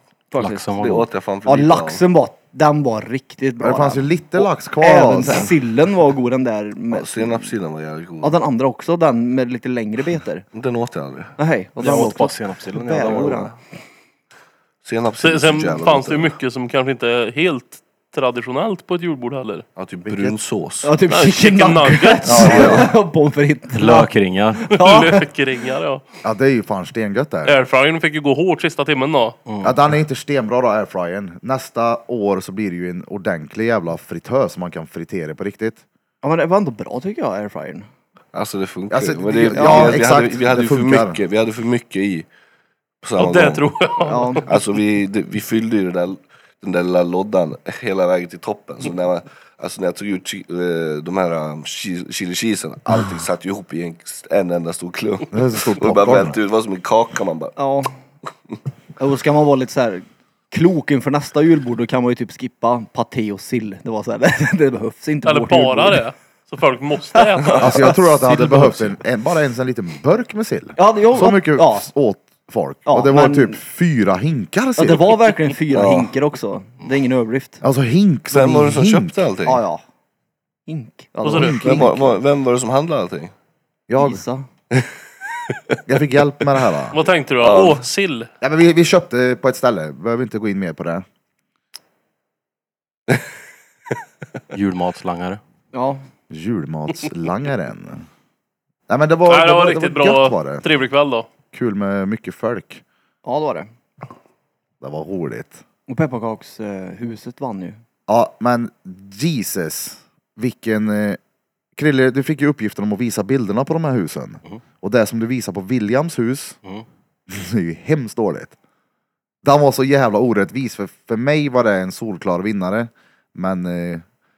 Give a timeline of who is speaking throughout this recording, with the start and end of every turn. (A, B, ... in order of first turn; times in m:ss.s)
0:00.3-0:00.7 A
0:00.4-0:01.1 B
0:00.8-0:02.0 C
0:01.4-0:07.6 A
0:03.6-0:05.6 D
0:06.9-0:08.4 C
0:08.2-0:10.4 A
0:10.5-0:11.4 C
0:11.4-0:13.6 A
0:11.8-0:13.5 B
0:14.8-0:16.4 C
0:15.2-0:19.6 E
0:19.8-0:20.9 C
0:20.0-0:20.4 D
0:20.8-0:25.3 A
0:21.1-0:22.8 E
0:22.3-0:22.9 D
0:22.5-0:22.8 C
0:23.7-0:24.7 B
0:24.7-0:26.0 E
0:26.2-0:27.6 D
0:27.4-0:29.4 E
0:29.5-0:29.8 B
0:29.6-0:35.8 D
0:36.2-0:37.9 A
0:38.3-0:42.3 C
0:38.9-0:41.2 D
0:39.5-0:40.0 A
0:43.0-0:43.7 C
0:43.2-0:44.4 E
0:44.1-0:44.4 A
0:44.5-0:57.6 C
0:55.3-0:56.4 D
0:57.6-0:57.9 A
0:59.0-1:06.0 A
1:05.3-1:07.8 E
1:07.2-1:08.9 A
1:07.6-1:15.2 D
1:10.8-1:11.9 A
1:12.9-1:13.6 A
1:14.8-1:17.6 A
1:15.7-1:16.1 C
1:17.6-1:19.2 D
1:18.3-1:19.6 C
1:19.4-1:19.8 A
1:20.7-1:21.9 A
1:21.2-1:21.6 E
1:21.3-1:22.1 D
1:21.6-1:23.3 C
1:23.9-1:24.2 D
1:24.0-1:24.5 A
1:25.9-1:27.0 D
1:26.9-1:28.3 E
1:27.4-1:27.8 C
1:28.4-1:31.0 D
1:34.5-1:35.4 B
1:35.7-1:36.0 A
1:36.3-1:38.0 D
1:38.9-1:40.7 D
1:39.3-1:41.3 E
1:41.5-1:42.8 D
1:43.2-1:43.7 A
1:44.8-1:45.6 D
1:45.9-1:47.8 A
1:48.1-1:51.2 D
1:51.8-1:56.6 D
1:57.3-1:58.6 D
1:59.4-2:04.0 D